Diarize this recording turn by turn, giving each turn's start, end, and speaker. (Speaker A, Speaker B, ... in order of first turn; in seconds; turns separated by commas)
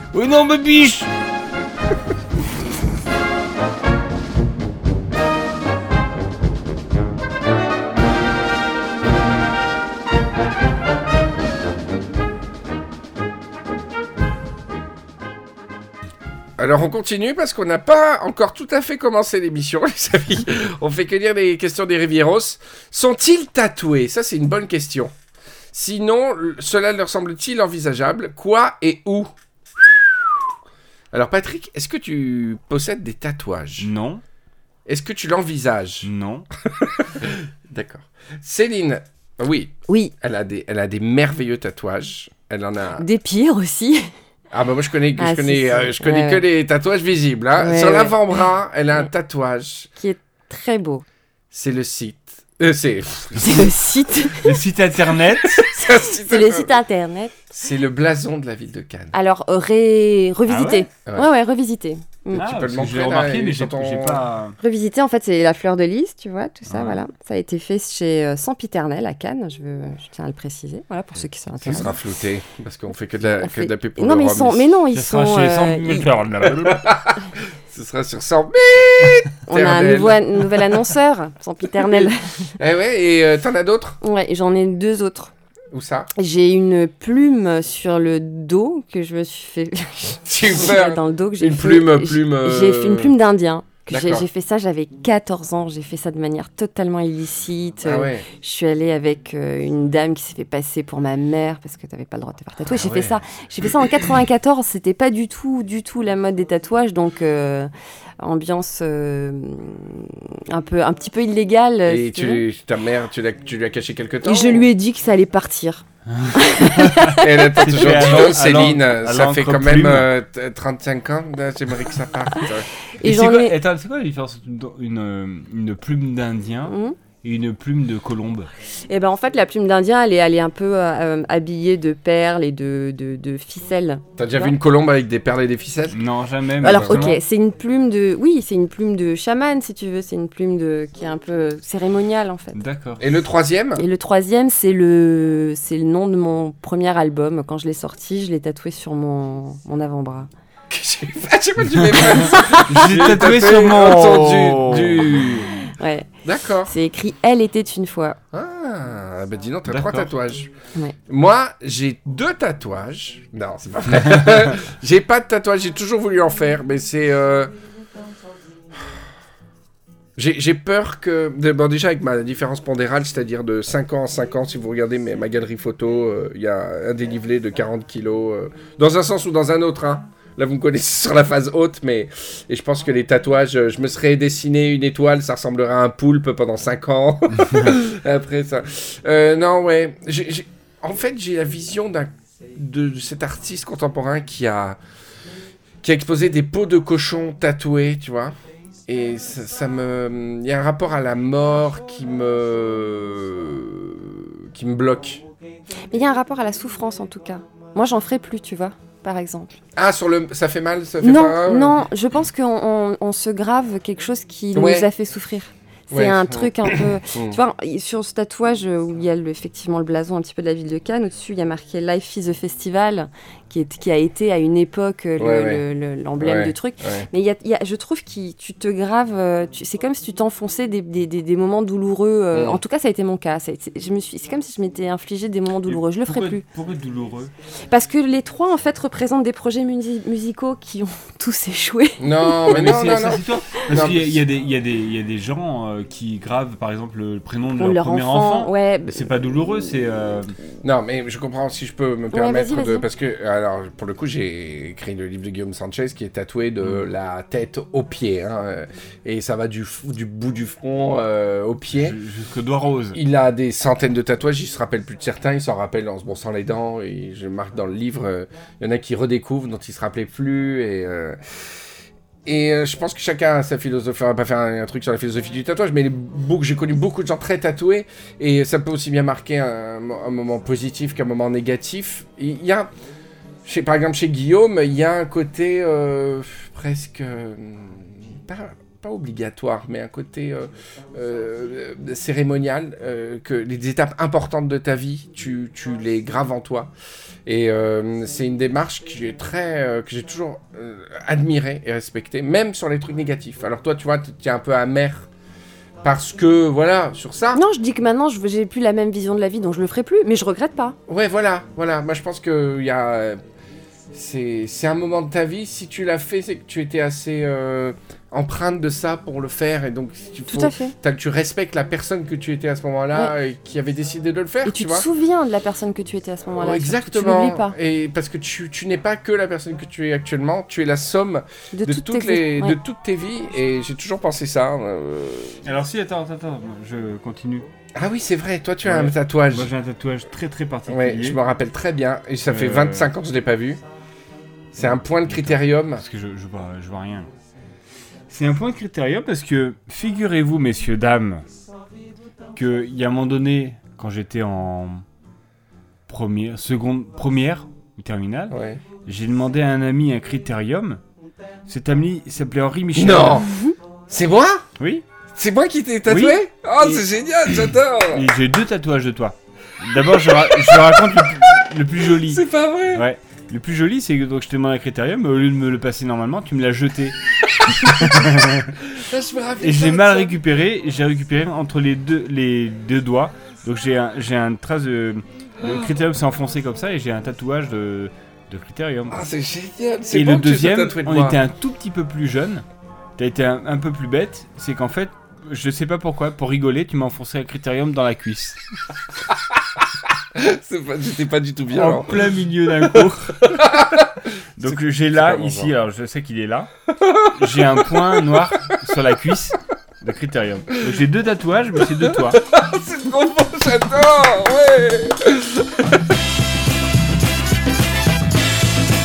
Speaker A: 0.1-1.1, Speaker B: 16.6-25.1, Speaker B: 25.7-29.3, Speaker B: 31.1-33.9, Speaker A: 33.8-34.2, Speaker B: 34.9-36.1, Speaker A: 36.0-36.5, Speaker B: 36.7-43.0, Speaker C: 39.9-40.1, Speaker C: 43.0-44.1, Speaker B: 44.5-49.9, Speaker C: 45.2-46.4, Speaker C: 47.6-48.3, Speaker C: 50.0-51.0, Speaker B: 51.5-53.6, Speaker C: 53.4-54.5, Speaker A: 54.4-55.6, Speaker B: 55.5-56.7, Speaker C: 55.8-57.3, Speaker B: 57.5-59.1, Speaker C: 59.1-62.4, Speaker A: 60.5-60.9, Speaker B: 62.3-64.2, Speaker A: 62.3-64.6, Speaker C: 64.6-71.9, Speaker A: 66.7-67.0, Speaker A: 71.6-71.8, Speaker B: 71.6-74.6, Speaker C: 73.4-76.0, Speaker A: 74.9-76.9, Speaker B: 76.6-80.6, Speaker C: 79.5-82.5, Speaker B: 82.6-84.0, Speaker C: 84.0-85.3, Speaker B: 85.7-86.1, Speaker C: 86.2-112.4, Speaker B: 90.2-93.1, Speaker B: 93.9-94.2, Speaker B: 97.8-98.2, Speaker B: 102.7-103.2, Speaker B: 111.9-114.7, Speaker C: 114.2-115.8, Speaker A: 116.1-120.1, Speaker C: 116.3-117.8, Speaker B: 117.2-122.7, Speaker C: 123.0-123.5, Speaker A: 123.0-128.5, Speaker C: 126.7-127.0, Speaker C: 128.9-134.5, Speaker B: 134.2-136.0, Speaker A: 135.9-137.2, Speaker C: 136.6-142.6, Speaker B: 136.6-137.1, Speaker A: 142.5-143.0, Speaker B: 143.0-143.8, Speaker C: 143.8-150.3, Speaker B: 150.7-155.5, Speaker C: 152.3-152.6, Speaker A: 152.5-155.1, Speaker C: 155.6-156.1, Speaker B: 156.2-156.7, Speaker C: 156.7-158.2, Speaker B: 158.3-160.5, Speaker A: 159.7-160.1, Speaker B: 161.1-167.5, Speaker A: 164.1-164.4, Speaker B: 170.2-194.8, Speaker A: 187.3-187.7, Speaker B: 195.8-198.3, Speaker B: 198.9-205.2, Speaker C: 205.9-209.5, Speaker B: 209.8-211.8, Speaker C: 211.0-236.4, Speaker B: 214.5-214.9, Speaker B: 215.9-217.4, Speaker B: 225.2-225.6, Speaker B: 226.2-227.1, Speaker B: 232.3-232.6, Speaker A: 235.7-237.3, Speaker C: 237.7-242.9, Speaker B: 242.0-244.2, Speaker A: 242.5-250.3, Speaker C: 247.6-248.9, Speaker B: 250.6-262.0, Speaker C: 252.1-252.8, Speaker A: 261.7-263.0, Speaker B: 262.9-271.2, Speaker B: 272.2-282.7, Speaker B: 283.4-296.7, Speaker B: 297.2-305.1, Speaker B: 305.8-307.4, Speaker C: 307.3-310.8, Speaker B: 310.9-313.2, Speaker B: 313.9-324.9, Speaker C: 320.3-320.7, Speaker C: 324.4-327.5, Speaker B: 326.4-335.4, Speaker C: 331.5-332.6, Speaker A: 335.4-337.5, Speaker B: 337.8-339.5, Speaker A: 338.6-341.2, Speaker B: 340.7-343.6, Speaker A: 342.2-342.9, Speaker B: 344.5-345.8, Speaker A: 344.6-347.1, Speaker A: 348.1-351.2, Speaker A: 352.3-354.8, Speaker A: 355.9-360.8, Speaker B: 358.3-358.6, Speaker A: 361.5-363.3, Speaker B: 362.7-363.3, Speaker C: 363.2-363.6, Speaker B: 363.9-364.4, Speaker A: 364.6-364.8, Speaker B: 365.1-368.1, Speaker A: 365.9-366.8, Speaker A: 367.9-377.0, Speaker B: 370.0-370.8, Speaker B: 371.9-372.8, Speaker A: 377.5-378.6, Speaker B: 378.7-380.2, Speaker A: 379.4-389.0, Speaker B: 388.9-391.2, Speaker A: 389.9-392.4, Speaker A: 393.0-398.4, Speaker B: 400.1-402.1, Speaker A: 401.5-403.5, Speaker B: 403.2-405.5, Speaker A: 404.4-406.5, Speaker B: 406.7-407.1, Speaker A: 407.1-412.2, Speaker B: 411.8-415.9